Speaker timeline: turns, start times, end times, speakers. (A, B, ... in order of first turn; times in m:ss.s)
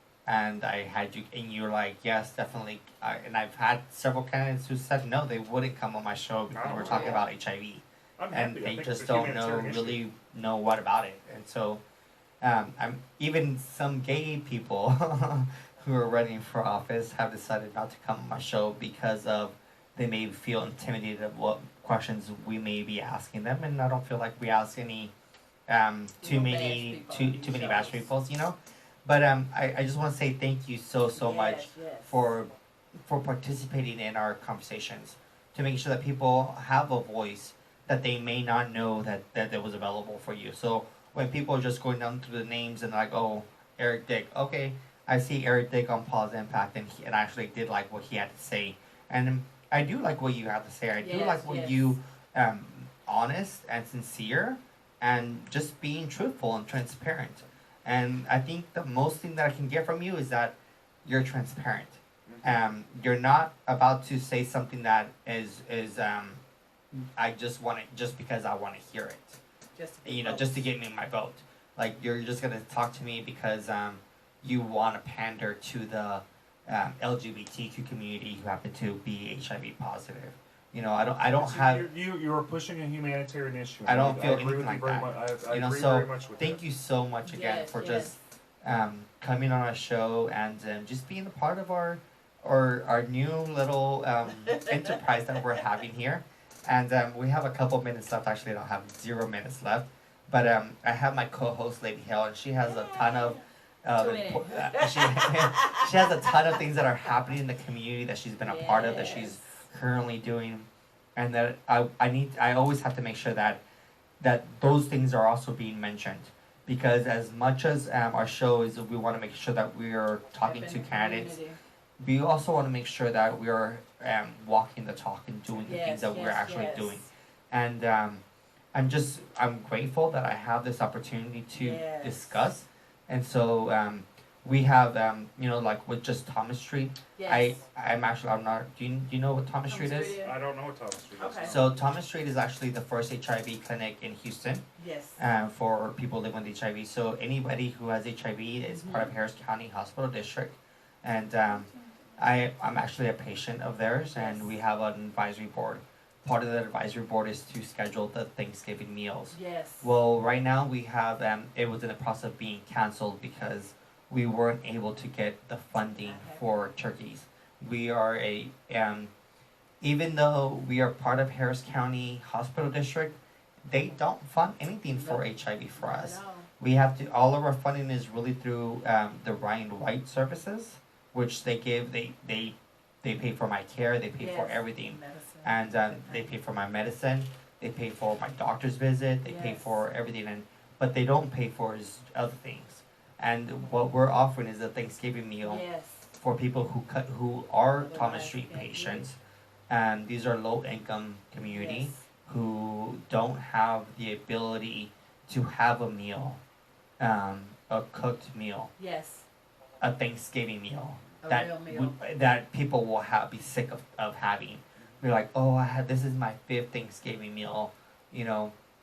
0:00.3-0:11.8 A
0:06.5-0:07.2 B
0:06.7-0:07.2 C
0:08.2-0:10.0 B
0:12.4-0:25.1 A
0:25.7-0:32.5 A
0:26.2-0:28.1 C
0:31.1-0:32.2 C
0:33.1-1:06.4 A
0:51.0-0:51.9 C
1:07.2-1:09.4 A
1:09.8-1:10.7 C
1:10.0-1:21.9 A
1:21.3-1:26.6 B
1:23.8-1:53.6 A
1:27.2-1:28.2 C
1:42.6-1:43.4 C
1:44.0-1:45.8 C
1:48.4-1:49.5 C
1:54.2-2:01.4 A
2:00.4-2:01.6 C
2:02.0-2:08.2 A
2:05.6-2:07.1 C
2:08.7-2:20.2 A
2:11.6-2:12.5 C
2:17.2-2:17.6 C
2:19.7-2:20.4 C
2:20.2-2:21.8 B
2:21.2-2:21.6 C
2:21.5-2:24.6 A
2:24.8-2:25.2 C
2:25.2-2:49.1 A
2:28.7-2:29.1 C
2:34.2-2:34.5 C
2:39.3-2:39.9 C
2:46.0-2:46.5 C
2:49.8-2:53.2 A
2:53.7-3:15.6 A
2:54.9-2:55.3 C
2:55.8-2:56.5 C
3:04.2-3:06.3 C
3:09.2-3:09.8 C
3:15.4-3:16.1 C
3:16.2-3:19.2 A
3:17.8-3:19.0 C
3:19.7-3:26.4 A
3:21.5-3:22.0 C
3:27.0-3:28.7 A
3:28.8-3:29.3 C
3:29.8-3:38.5 A
3:31.2-3:32.0 C